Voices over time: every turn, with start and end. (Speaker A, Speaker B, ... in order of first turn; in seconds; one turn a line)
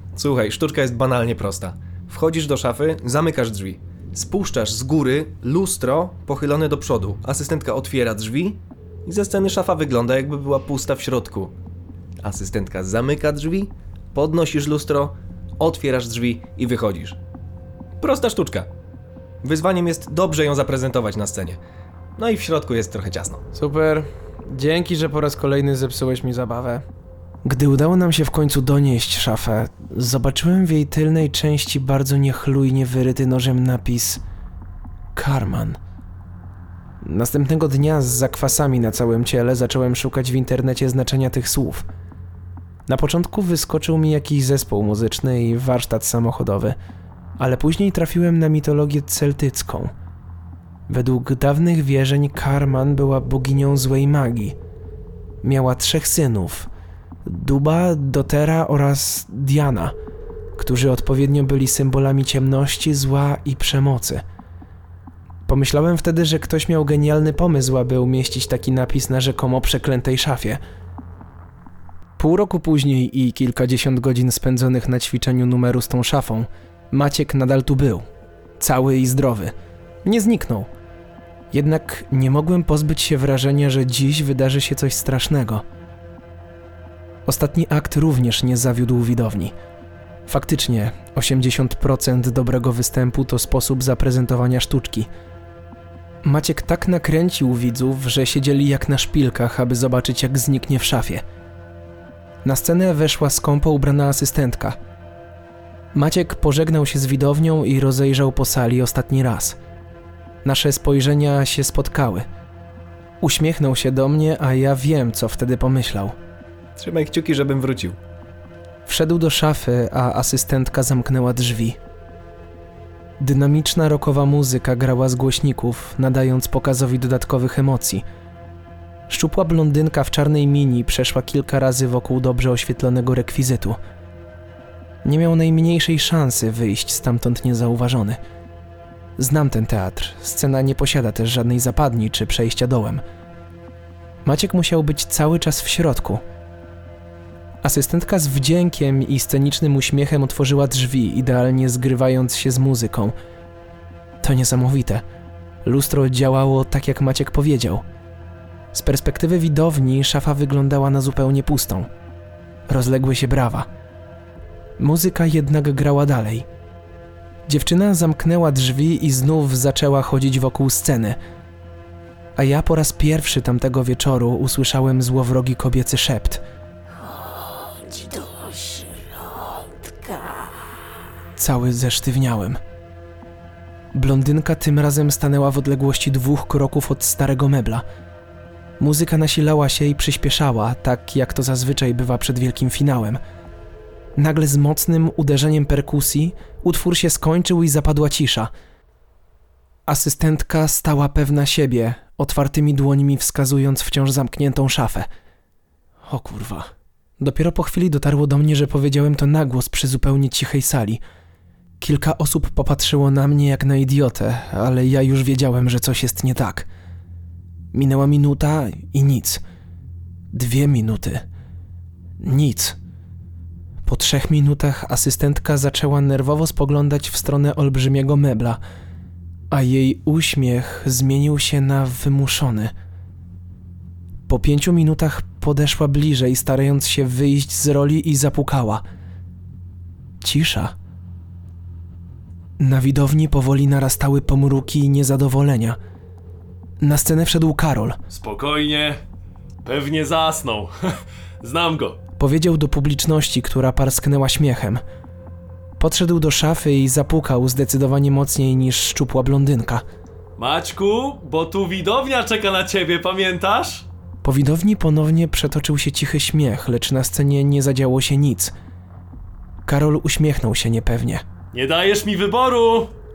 Speaker A: 0.2-11.5
Speaker A: 12.2-17.2
Speaker A: 18.0-18.7
Speaker A: 19.4-21.6
Speaker A: 22.2-23.4
Speaker B: 23.6-26.9
Speaker B: 27.4-34.2
Speaker B: 35.1-35.8
Speaker B: 37.0-41.9
Speaker B: 42.9-46.8
Speaker B: 47.4-49.9
Speaker B: 50.9-54.6
Speaker B: 55.4-56.7
Speaker B: 57.2-60.0
Speaker B: 60.6-64.2
Speaker B: 65.5-70.6
Speaker B: 72.2-78.1
Speaker B: 78.6-80.7
Speaker B: 81.5-85.7
Speaker B: 87.3-89.5
Speaker B: 90.3-95.1
Speaker B: 96.2-101.2
Speaker B: 102.4-104.8
Speaker B: 105.9-109.6
Speaker B: 110.4-112.3
Speaker B: 113.2-116.2
Speaker A: 116.8-118.0
Speaker B: 118.9-121.8
Speaker B: 123.2-128.1
Speaker B: 129.1-133.8
Speaker B: 135.0-138.2
Speaker B: 139.2-143.0
Speaker B: 144.2-146.2
Speaker B: 147.6-153.2
Speaker B: 154.2-155.0
Speaker B: 155.6-157.8
Speaker B: 158.7-161.9
Speaker B: 162.7-163.7
Speaker B: 164.8-166.5
Speaker B: 167.5-171.2
Speaker B: 172.4-176.4
Speaker C: 177.0-180.8
Speaker B: 181.4-182.6
Speaker B: 183.9-187.8
Speaker B: 188.8-193.2
Speaker B: 194.2-198.5
Speaker B: 199.9-205.1
Speaker B: 206.1-211.0
Speaker B: 211.8-216.7
Speaker B: 217.7-219.4
Speaker B: 220.3-221.2
Speaker B: 222.2-222.8
Speaker B: 223.8-228.6
Speaker B: 229.5-232.7
Speaker B: 234.3-238.8
Speaker B: 240.2-240.8
Speaker B: 242.6-245.8
Speaker B: 246.8-248.0
Speaker D: 248.1-249.0
Speaker D: 249.6-252.0
Speaker B: 252.2-254.8
Speaker B: 255.8-259.8
Speaker D: 260.4-263.9
Speaker B: 264.2-268.5
Speaker B: 269.6-271.2
Speaker D: 271.5-272.9